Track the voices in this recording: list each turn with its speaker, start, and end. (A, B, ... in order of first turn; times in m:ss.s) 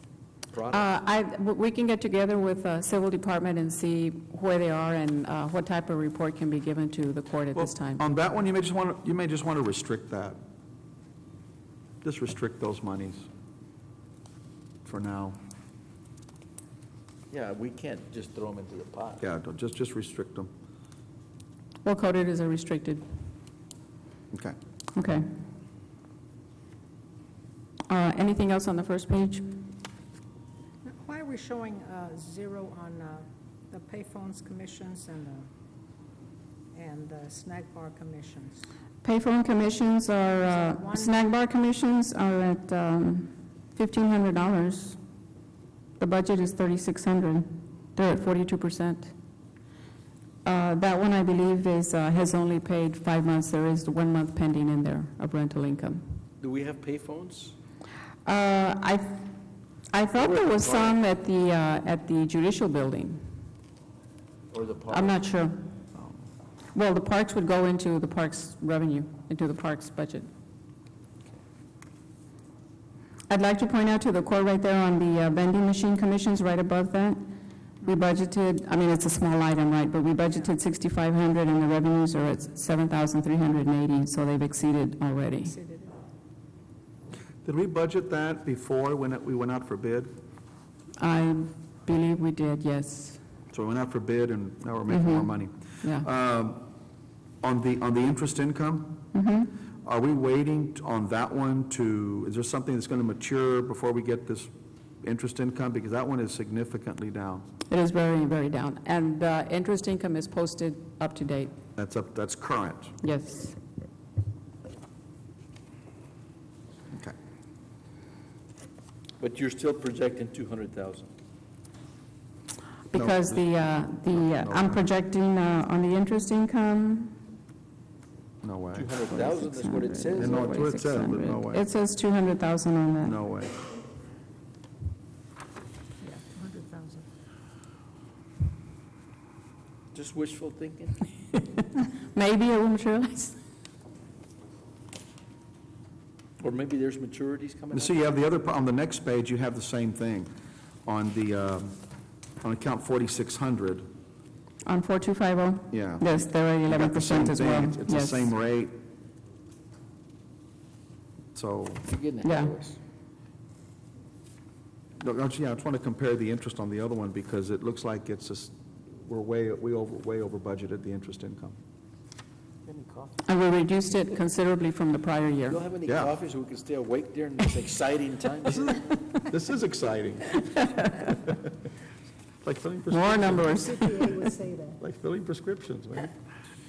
0:00.5-0:00.9 A
0:00.7-0:08.0 B
0:07.5-0:10.4 C
0:12.0-0:13.2 C
0:14.8-0:15.4 C
0:17.3-0:19.2 A
0:19.2-0:20.5 C
0:21.8-0:23.0 B
0:24.9-0:25.3 B
0:27.9-0:29.6 B
0:30.8-0:35.5 D
0:36.7-0:38.6 D
0:39.0-0:45.0 B
0:40.2-0:41.3 D
0:46.0-0:49.1 B
0:50.4-0:56.0 B
0:56.4-0:57.5 A
0:58.2-0:59.3 B
0:59.9-1:03.2 B
1:00.2-1:01.0 A
1:04.5-1:05.2 A
1:04.9-1:05.7 B
1:06.7-1:10.3 B
1:13.3-1:17.2 B
1:17.8-1:25.5 B
1:25.4-1:25.9 D
1:27.4-1:30.1 C
1:31.0-1:33.2 B
1:33.5-1:36.6 C
1:34.9-1:35.3 B
1:37.4-1:39.0 C
1:39.1-1:39.5 B
1:39.8-1:44.5 C
1:45.0-1:47.5 C
1:47.7-1:51.5 B
1:51.8-1:52.9 C
1:53.0-1:53.6 B
1:59.2-2:01.1 A
2:02.9-2:07.1 B
2:02.9-2:03.4 C
2:04.4-2:04.8 C
2:08.4-2:08.9 C
2:08.7-2:10.6 A
2:09.1-2:13.2 B
2:10.2-2:11.6 C
2:13.0-2:13.5 C
2:16.0-2:17.0 D
2:19.9-2:21.1 A
2:22.0-2:23.4 B
2:26.4-2:28.0 A
2:27.7-2:30.3 C
2:30.8-2:31.8 C
2:32.4-2:33.8 C
2:34.6-2:38.3 B
2:35.7-2:36.1 C
2:36.7-2:38.7 C
2:41.3-2:41.9 C
2:41.9-2:42.8 A
2:42.2-2:42.5 B
2:45.0-2:51.6 C
2:52.6-2:53.2 A
2:53.2-2:55.6 B
2:55.5-2:58.7 A
2:55.9-2:56.1 C
2:58.5-3:00.9 C
3:02.4-3:03.7 C
3:02.9-3:04.2 B
3:03.7-3:04.8 D
3:04.8-3:06.1 C